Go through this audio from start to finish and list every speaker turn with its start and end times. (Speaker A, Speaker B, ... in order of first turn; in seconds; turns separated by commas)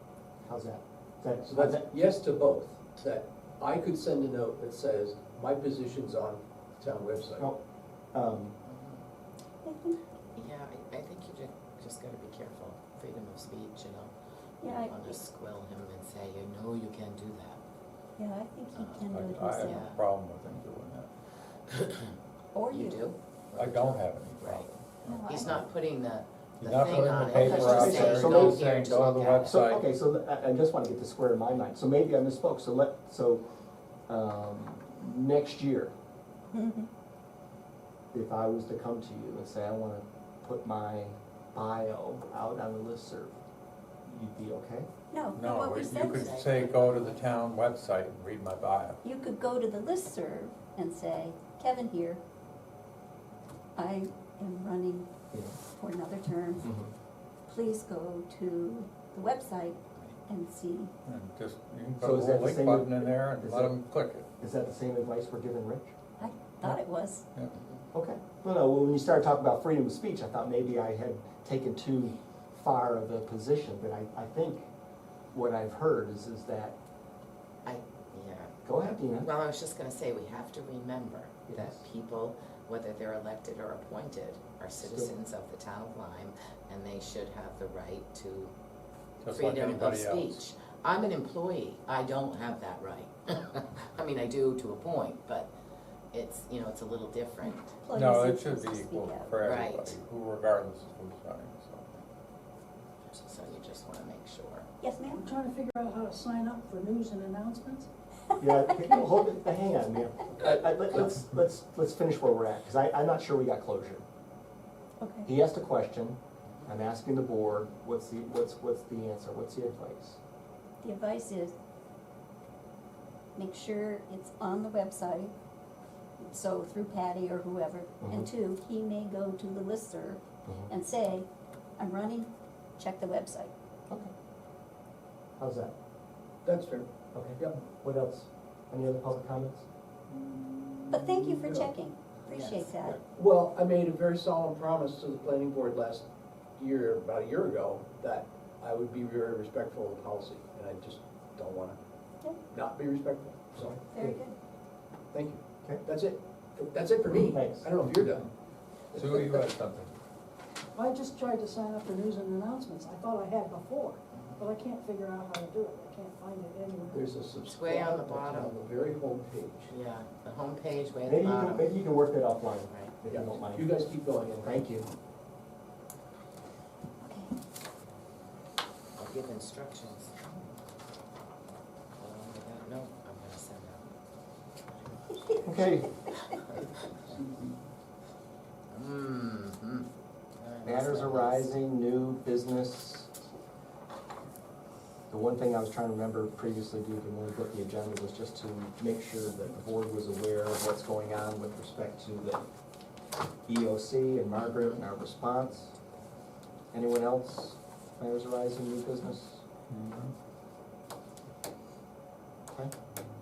Speaker A: 0.4-1.9, Speaker B: 1.5-7.5, Speaker A: 8.1-8.6, Speaker C: 8.6-9.0, Speaker D: 9.6-10.0, Speaker C: 10.3-17.6, Speaker D: 14.6-15.2, Speaker D: 18.2-19.9, Speaker C: 18.7-20.0, Speaker E: 19.1-21.1, Speaker C: 21.7-22.1, Speaker D: 22.5-23.1, Speaker C: 22.7-29.6, Speaker E: 23.6-25.6, Speaker D: 25.0-25.6, Speaker E: 26.6-29.8, Speaker A: 27.3-28.6, Speaker A: 29.4-33.5, Speaker A: 34.1-35.9, Speaker D: 36.5-36.9, Speaker A: 38.1-43.4, Speaker A: 44.0-44.9, Speaker D: 45.1-46.3, Speaker E: 45.4-49.0, Speaker C: 45.9-47.2, Speaker D: 49.0-52.2, Speaker D: 53.8-55.1, Speaker A: 55.3-55.6, Speaker D: 55.6-56.7, Speaker A: 56.6-56.9, Speaker D: 57.5-60.9, Speaker E: 61.0-64.2, Speaker A: 62.0-63.8, Speaker A: 64.4-65.9, Speaker D: 66.2-67.2, Speaker A: 67.9-74.7, Speaker A: 75.3-76.8, Speaker C: 77.6-78.6, Speaker A: 78.6-79.3, Speaker C: 79.1-88.5, Speaker A: 81.5-81.8, Speaker A: 84.8-85.1, Speaker E: 89.2-90.4, Speaker C: 89.3-95.5, Speaker C: 96.1-97.7, Speaker D: 97.4-99.3, Speaker E: 97.9-101.9, Speaker C: 99.4-100.0, Speaker C: 103.1-104.7, Speaker D: 104.8-105.3, Speaker F: 105.1-107.9, Speaker D: 108.3-109.0, Speaker A: 108.4-114.0, Speaker D: 115.0-115.3, Speaker A: 115.2-120.2, Speaker D: 120.8-121.5, Speaker D: 123.3-125.3, Speaker D: 126.2-131.3, Speaker A: 128.0-128.3, Speaker A: 130.4-130.7, Speaker D: 131.8-133.5, Speaker A: 135.4-135.7, Speaker B: 136.4-137.6, Speaker A: 137.1-139.7, Speaker B: 140.3-141.6, Speaker D: 140.9-143.0, Speaker B: 142.3-146.0, Speaker B: 146.6-151.8, Speaker B: 152.5-153.8, Speaker A: 153.6-154.2, Speaker D: 153.9-154.3, Speaker B: 155.1-158.3, Speaker A: 157.3-157.7, Speaker E: 158.9-159.9, Speaker B: 159.0-159.4, Speaker F: 160.7-167.1, Speaker C: 164.1-164.4, Speaker B: 166.9-169.7, Speaker C: 167.4-168.6, Speaker C: 169.7-171.7, Speaker A: 171.1-173.8, Speaker C: 172.7-172.9, Speaker B: 173.1-174.5, Speaker A: 174.3-174.9, Speaker D: 177.0-177.3, Speaker C: 179.0-180.6, Speaker C: 182.0-183.9, Speaker C: 184.7-185.4, Speaker A: 185.4-185.9, Speaker C: 188.7-189.9, Speaker C: 190.4-191.5, Speaker A: 190.6-193.1, Speaker A: 195.1-202.4, Speaker A: 203.5-205.7, Speaker A: 206.7-209.4, Speaker E: 209.7-210.1